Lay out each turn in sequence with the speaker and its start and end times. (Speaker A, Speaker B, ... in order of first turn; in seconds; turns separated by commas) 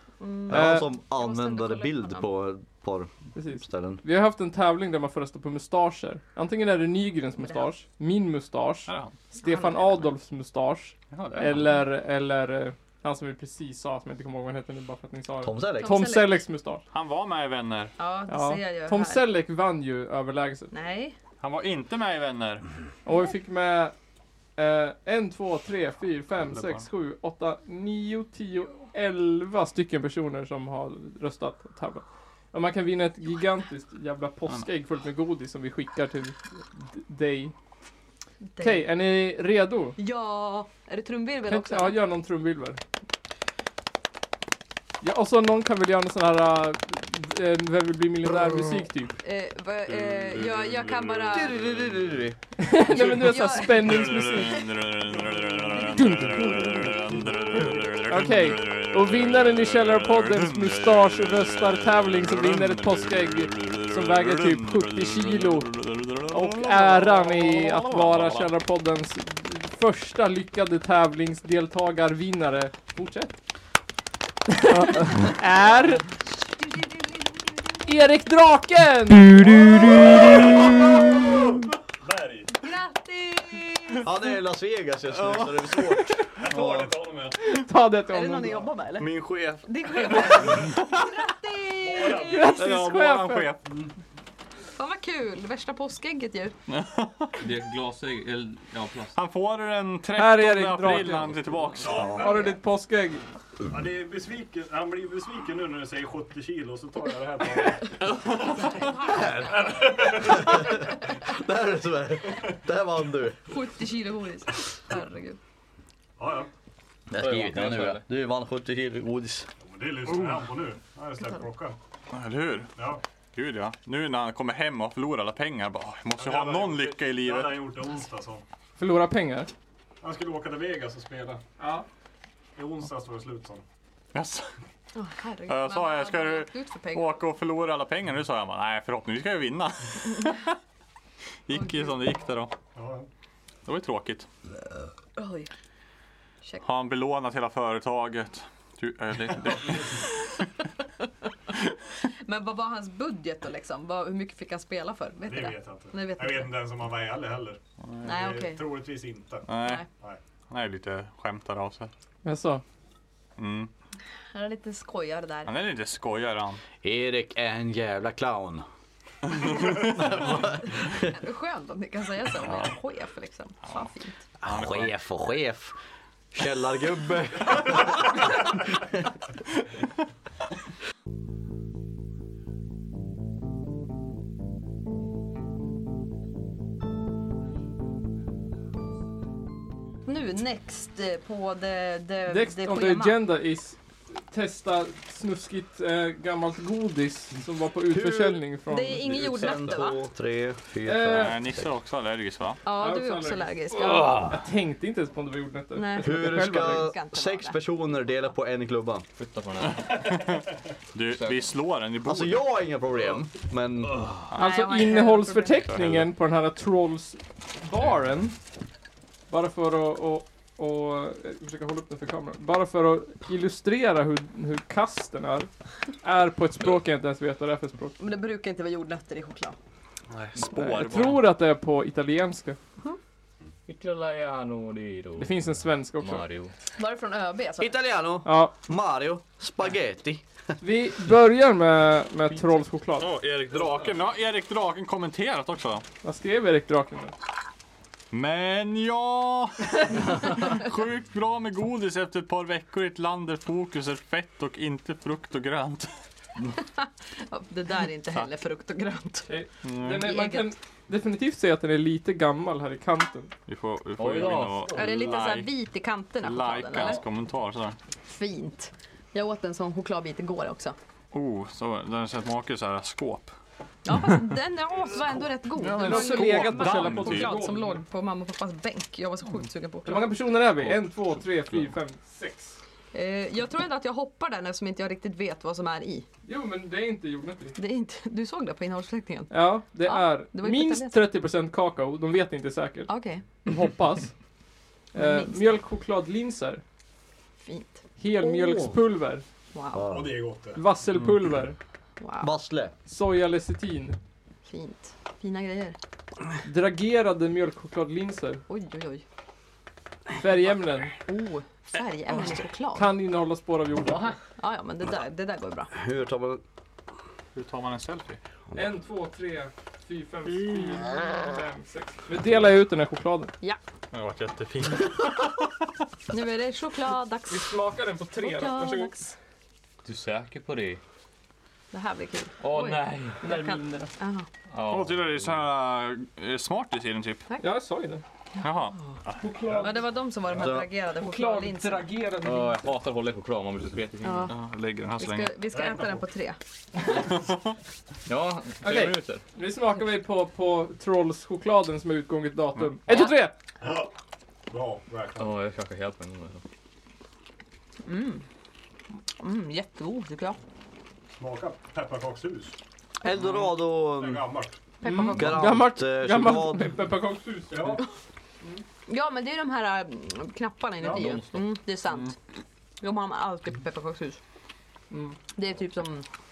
Speaker A: 0.2-2.2, Speaker B: 0.5-4.0, Speaker C: 0.5-0.9, Speaker C: 3.3-16.8, Speaker A: 7.4-7.7, Speaker D: 8.9-9.2, Speaker A: 9.4-10.1, Speaker D: 11.1-11.6, Speaker B: 15.4-16.1, Speaker A: 15.8-16.4, Speaker D: 16.9-17.9, Speaker A: 18.0-19.2, Speaker C: 18.3-20.7, Speaker A: 20.7-21.1, Speaker D: 21.4-22.6, Speaker C: 23.0-23.9, Speaker C: 24.6-37.5, Speaker D: 26.5-26.8, Speaker A: 38.4-38.9, Speaker C: 38.6-40.0, Speaker A: 40.0-42.0, Speaker C: 41.5-42.8, Speaker C: 45.0-49.1, Speaker A: 49.2-51.5, Speaker D: 49.9-52.1, Speaker B: 51.3-52.4, Speaker C: 52.6-54.6, Speaker D: 52.9-68.5, Speaker A: 53.0-54.7, Speaker C: 55.9-56.8, Speaker C: 58.1-65.8, Speaker C: 66.3-73.3, Speaker C: 74.5-76.1, Speaker A: 76.3-77.9, Speaker C: 77.8-80.4, Speaker E: 82.0-82.5, Speaker A: 82.6-84.1, Speaker B: 84.0-86.8, Speaker D: 85.2-85.5, Speaker E: 86.3-87.4, Speaker C: 87.4-88.7, Speaker A: 88.1-92.5, Speaker D: 89.0-90.8, Speaker E: 90.5-90.7, Speaker E: 91.8-92.6, Speaker C: 92.2-93.5, Speaker D: 92.5-93.7, Speaker A: 94.8-96.5, Speaker D: 96.7-97.3, Speaker F: 97.4-99.2, Speaker D: 99.1-102.2, Speaker C: 100.2-101.4, Speaker E: 101.8-102.5, Speaker C: 102.1-103.2, Speaker E: 103.7-108.1, Speaker A: 108.5-109.5, Speaker B: 109.1-109.5, Speaker E: 109.3-110.8, Speaker B: 110.1-113.4, Speaker A: 113.5-115.4, Speaker E: 116.2-116.5, Speaker B: 117.1-119.5, Speaker F: 117.1-118.0, Speaker E: 119.6-121.8, Speaker D: 122.1-122.7, Speaker E: 122.7-123.0, Speaker D: 123.3-127.6, Speaker E: 126.2-128.4, Speaker C: 128.8-129.5, Speaker E: 130.0-131.4, Speaker C: 131.6-131.8, Speaker E: 132.6-133.6, Speaker D: 134.1-134.5, Speaker A: 134.9-137.2, Speaker D: 135.5-140.5, Speaker D: 141.5-142.5, Speaker A: 141.5-141.9, Speaker E: 142.7-143.1, Speaker D: 143.6-144.3, Speaker A: 145.2-145.5, Speaker D: 146.6-150.0, Speaker E: 149.4-150.0, Speaker A: 152.1-156.5, Speaker E: 155.2-160.2, Speaker A: 158.0-158.6, Speaker D: 159.5-159.8, Speaker D: 160.5-161.9, Speaker C: 162.2-162.6, Speaker D: 163.4-163.7, Speaker A: 164.3-165.6, Speaker D: 165.4-166.6, Speaker B: 166.8-168.7, Speaker B: 169.4-171.1, Speaker D: 169.4-169.8, Speaker A: 170.8-174.2, Speaker B: 174.4-175.7, Speaker D: 174.4-174.9, Speaker B: 176.3-178.3, Speaker A: 190.1-193.2, Speaker C: 192.3-199.0, Speaker B: 197.9-198.4, Speaker A: 198.7-200.0, Speaker B: 199.0-201.7, Speaker C: 200.8-201.4, Speaker D: 201.1-202.6, Speaker A: 202.6-204.3, Speaker C: 202.8-206.9, Speaker F: 203.8-204.3, Speaker A: 205.7-207.6, Speaker B: 206.0-209.1, Speaker F: 209.2-210.3, Speaker D: 209.7-212.4, Speaker F: 211.1-211.5, Speaker B: 212.0-214.0, Speaker F: 213.9-214.3, Speaker A: 214.3-215.7, Speaker C: 214.3-218.3, Speaker D: 215.7-216.1, Speaker C: 219.3-225.5, Speaker C: 226.0-228.0, Speaker A: 228.0-229.6, Speaker D: 230.1-231.2, Speaker C: 230.4-232.6, Speaker F: 233.7-235.4, Speaker C: 235.2-236.2, Speaker F: 236.0-236.5, Speaker A: 236.8-237.7, Speaker B: 237.6-240.2, Speaker C: 238.2-238.5, Speaker C: 240.6-243.1, Speaker D: 243.0-245.8, Speaker C: 246.0-247.1, Speaker D: 248.1-255.9, Speaker A: 256.6-259.3, Speaker C: 259.3-263.3, Speaker D: 259.6-260.1, Speaker A: 260.0-260.5, Speaker D: 263.5-265.5, Speaker F: 264.0-264.8, Speaker A: 264.7-267.0, Speaker D: 266.2-267.8, Speaker A: 268.1-270.8, Speaker D: 271.1-273.3, Speaker A: 273.8-280.1, Speaker C: 275.6-277.8, Speaker D: 275.6-277.5, Speaker C: 279.8-282.6, Speaker A: 282.9-286.1, Speaker C: 286.2-287.6, Speaker A: 287.6-289.3, Speaker C: 289.3-292.9, Speaker A: 289.8-291.0, Speaker A: 292.9-293.2, Speaker C: 293.4-294.1, Speaker C: 294.9-296.6, Speaker A: 294.9-295.3, Speaker A: 297.4-297.8, Speaker C: 298.0-299.2, Speaker B: 298.2-298.8, Speaker A: 299.5-299.9, Speaker B: 299.7-300.1, Speaker E: 299.8-300.6, Speaker C: 300.5-301.6, Speaker A: 302.0-302.3, Speaker B: 302.2-302.7, Speaker C: 302.9-304.0, Speaker A: 304.4-305.8, Speaker C: 306.4-308.4, Speaker A: 308.5-309.0, Speaker C: 310.1-310.9, Speaker A: 311.1-312.9, Speaker C: 312.7-314.2, Speaker A: 314.4-315.7, Speaker B: 315.7-316.4, Speaker D: 317.3-318.2, Speaker C: 318.5-323.3, Speaker D: 323.9-325.5, Speaker A: 326.1-327.5, Speaker C: 327.3-328.9, Speaker A: 328.2-329.1, Speaker F: 329.8-330.8, Speaker A: 331.7-334.3, Speaker F: 332.4-333.2, Speaker C: 333.2-333.9, Speaker F: 334.5-335.4, Speaker D: 334.6-337.3, Speaker C: 337.4-338.0, Speaker D: 338.4-339.2, Speaker A: 338.4-339.0, Speaker C: 339.2-339.9, Speaker E: 339.4-339.7, Speaker A: 339.6-341.9, Speaker B: 340.3-340.7, Speaker C: 341.0-342.7, Speaker F: 342.2-344.3, Speaker A: 344.0-344.3, Speaker D: 344.3-345.3, Speaker A: 345.0-346.4, Speaker E: 345.4-346.1, Speaker D: 347.1-347.5, Speaker F: 348.1-349.2, Speaker C: 348.6-353.3, Speaker A: 352.9-353.1, Speaker E: 353.6-353.9, Speaker E: 354.5-355.4, Speaker F: 355.2-356.4, Speaker A: 357.8-358.2, Speaker A: 359.2-360.4, Speaker E: 361.1-362.6, Speaker B: 363.0-364.3, Speaker E: 363.9-364.6, Speaker A: 364.8-365.4, Speaker C: 364.8-367.8, Speaker B: 365.0-366.8, Speaker E: 367.5-367.8, Speaker A: 368.9-372.2, Speaker E: 370.8-371.2, Speaker F: 370.8-371.5, Speaker A: 372.8-374.2, Speaker C: 374.9-375.2, Speaker A: 375.3-376.0